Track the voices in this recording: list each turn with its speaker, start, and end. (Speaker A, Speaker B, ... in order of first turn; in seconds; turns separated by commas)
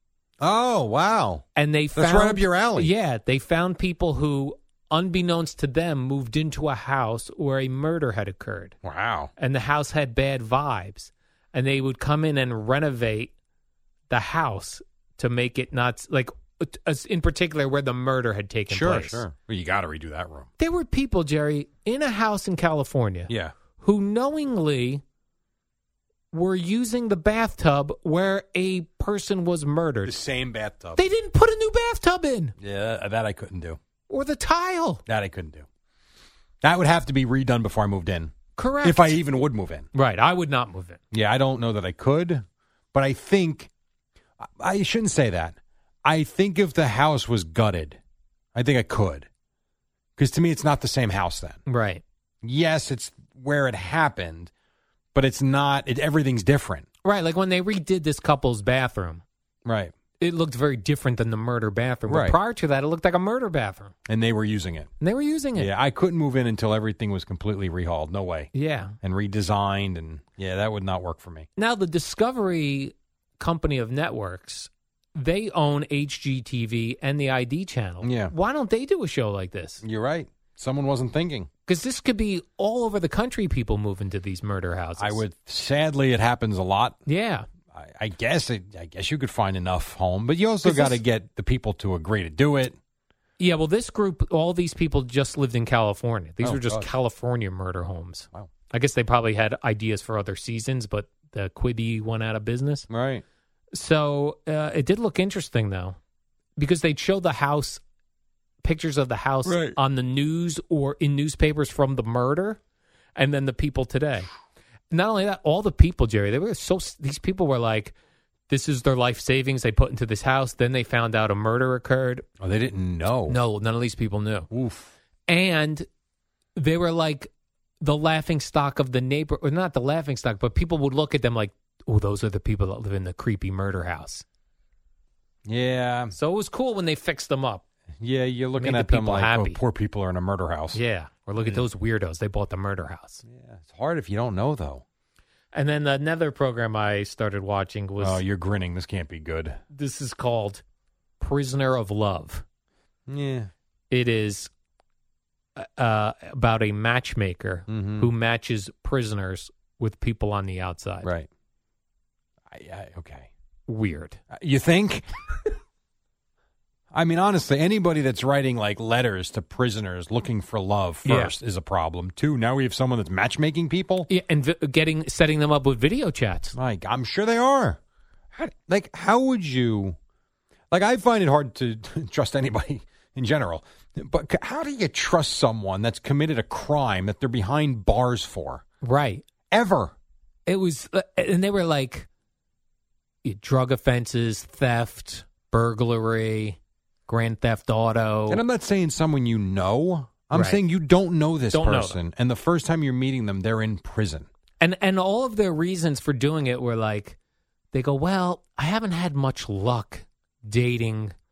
Speaker A: 0.4-2.9, Speaker B: 1.6-8.8, Speaker A: 8.8-9.3, Speaker B: 9.4-13.3, Speaker B: 14.1-19.2, Speaker A: 18.7-20.5, Speaker B: 20.6-25.0, Speaker A: 23.3-23.5, Speaker B: 26.3-30.2, Speaker A: 30.0-31.0, Speaker B: 30.9-32.5, Speaker A: 32.6-33.8, Speaker B: 34.1-35.0, Speaker A: 35.0-35.7, Speaker A: 36.6-39.9, Speaker B: 38.5-39.2, Speaker B: 39.9-41.0, Speaker A: 41.1-43.7, Speaker A: 44.4-48.0, Speaker A: 48.5-49.3, Speaker A: 50.2-51.6, Speaker B: 51.6-52.0, Speaker A: 52.4-54.5, Speaker A: 55.1-56.9, Speaker B: 57.0-59.2, Speaker A: 59.6-59.9, Speaker B: 60.2-63.9, Speaker A: 62.1-62.4, Speaker A: 64.1-64.9, Speaker B: 65.0-65.7, Speaker A: 65.5-71.5, Speaker B: 68.5-69.0, Speaker B: 71.6-79.8, Speaker A: 78.0-78.3, Speaker A: 79.8-81.5, Speaker B: 81.7-85.2, Speaker A: 85.0-87.0, Speaker B: 87.0-87.5, Speaker A: 87.7-92.8, Speaker B: 90.6-91.0, Speaker B: 93.4-102.9, Speaker A: 96.4-96.9, Speaker A: 102.9-103.2, Speaker B: 103.7-106.0, Speaker B: 106.6-107.8, Speaker B: 108.6-112.6, Speaker A: 109.4-109.8, Speaker B: 113.2-114.3, Speaker B: 114.9-117.9, Speaker B: 118.5-122.2, Speaker A: 122.4-123.4, Speaker B: 123.3-124.5, Speaker A: 124.5-124.9, Speaker B: 125.3-125.9, Speaker B: 126.5-127.3, Speaker B: 127.8-134.2, Speaker A: 135.4-136.1, Speaker B: 136.1-137.6, Speaker A: 138.0-140.8, Speaker B: 138.6-139.6, Speaker B: 140.7-143.2, Speaker A: 141.4-141.6, Speaker A: 143.2-144.8, Speaker B: 145.5-148.2, Speaker A: 148.0-149.6, Speaker B: 149.7-150.6, Speaker B: 151.2-152.4, Speaker A: 153.1-153.5, Speaker B: 153.9-154.5, Speaker B: 155.6-161.1, Speaker A: 157.7-158.1, Speaker A: 162.5-163.3, Speaker B: 163.7-164.2, Speaker A: 164.3-165.1, Speaker A: 166.9-174.1, Speaker B: 171.0-171.3, Speaker B: 174.1-176.5, Speaker A: 176.5-177.8, Speaker A: 178.3-180.0, Speaker A: 180.7-188.6, Speaker B: 188.8-189.2, Speaker A: 189.5-189.9, Speaker B: 190.5-192.1, Speaker B: 193.2-198.4, Speaker A: 198.3-204.3, Speaker B: 200.3-200.6, Speaker B: 201.5-202.0, Speaker B: 204.6-207.2, Speaker B: 207.7-211.1